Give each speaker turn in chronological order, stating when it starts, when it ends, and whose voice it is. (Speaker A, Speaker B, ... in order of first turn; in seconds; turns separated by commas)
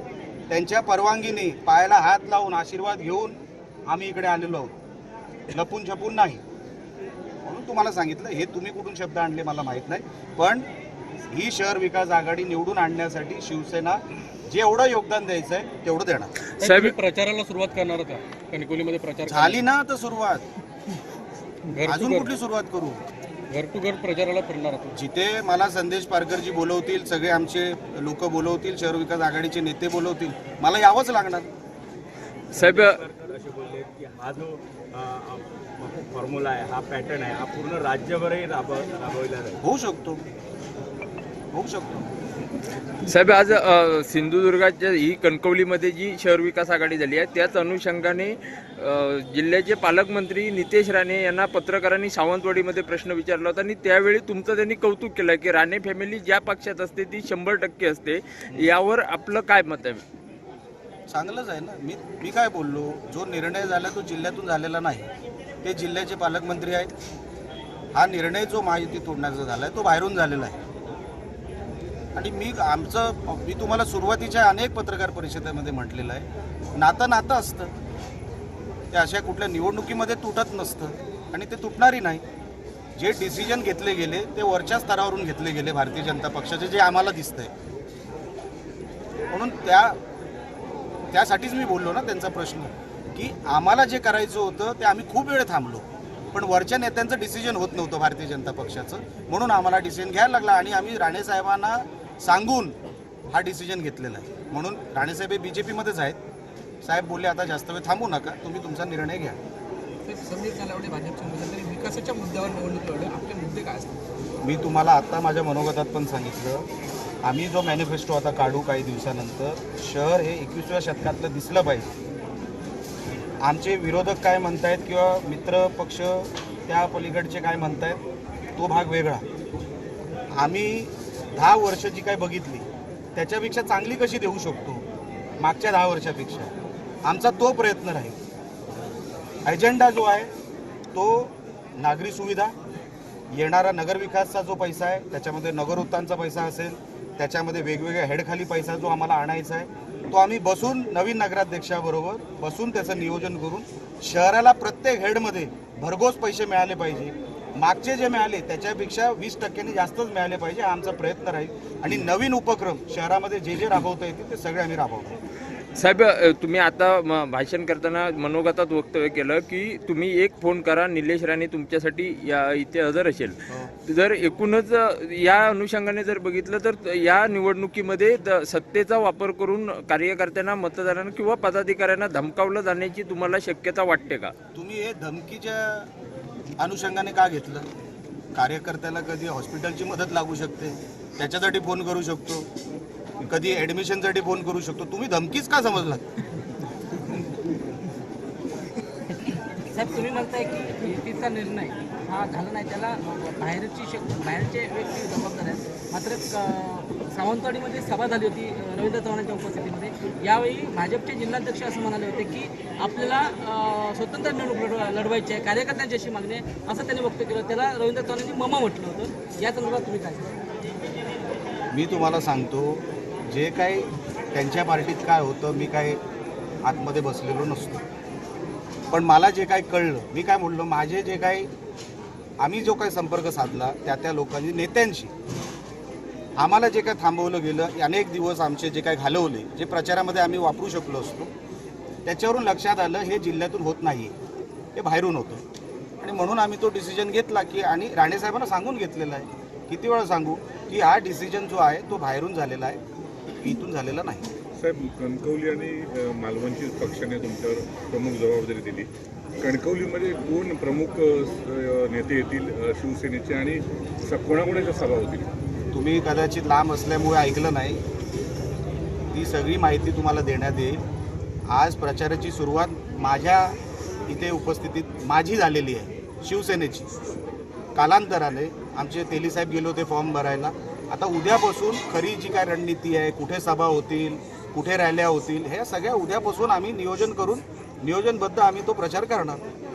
Speaker A: 0.5-4.7, Speaker A: 5.5-6.4, Speaker A: 7.4-10.6, Speaker A: 11.3-14.0, Speaker A: 14.5-16.3, Speaker B: 16.6-16.9, Speaker C: 16.6-19.7, Speaker A: 19.3-20.4, Speaker C: 21.7-22.3, Speaker A: 21.8-23.0, Speaker C: 23.5-24.9, Speaker A: 24.9-31.5, Speaker B: 32.5-33.0, Speaker D: 32.5-39.6, Speaker A: 39.6-40.2, Speaker A: 41.5-42.1, Speaker B: 43.0-60.0, Speaker A: 61.1-65.1, Speaker A: 65.6-66.9, Speaker A: 67.9-70.6, Speaker A: 72.1-77.7, Speaker A: 78.9-82.2, Speaker A: 83.0-87.5, Speaker A: 89.3-90.0, Speaker A: 91.1-102.7, Speaker A: 103.3-106.2, Speaker A: 106.8-109.4, Speaker E: 110.0-113.8, Speaker A: 114.4-116.7, Speaker A: 117.2-121.9, Speaker A: 123.4-128.0, Speaker A: 128.6-129.2, Speaker A: 130.3-134.8, Speaker A: 135.4-136.5, Speaker A: 137.1-138.2, Speaker A: 139.4-140.3, Speaker A: 140.9-142.5, Speaker A: 143.3-165.2, Speaker B: 165.8-184.3, Speaker A: 184.5-185.9, Speaker A: 186.6-187.7, Speaker A: 188.3-192.5, Speaker A: 193.2-196.0, Speaker E: 199.7-220.4, Speaker A: 221.7-226.0, Speaker A: 226.6-227.8, Speaker A: 228.9-231.5, Speaker A: 232.4-235.1, Speaker A: 236.4-241.3, Speaker A: 242.1-244.1, Speaker A: 244.8-245.4, Speaker A: 246.0-252.8, Speaker A: 253.4-254.2, Speaker F: 254.6-258.9, Speaker F: 259.4-265.3, Speaker A: 265.7-267.8, Speaker A: 269.1-270.8, Speaker A: 271.5-273.5, Speaker A: 274.1-276.9, Speaker A: 277.8-289.4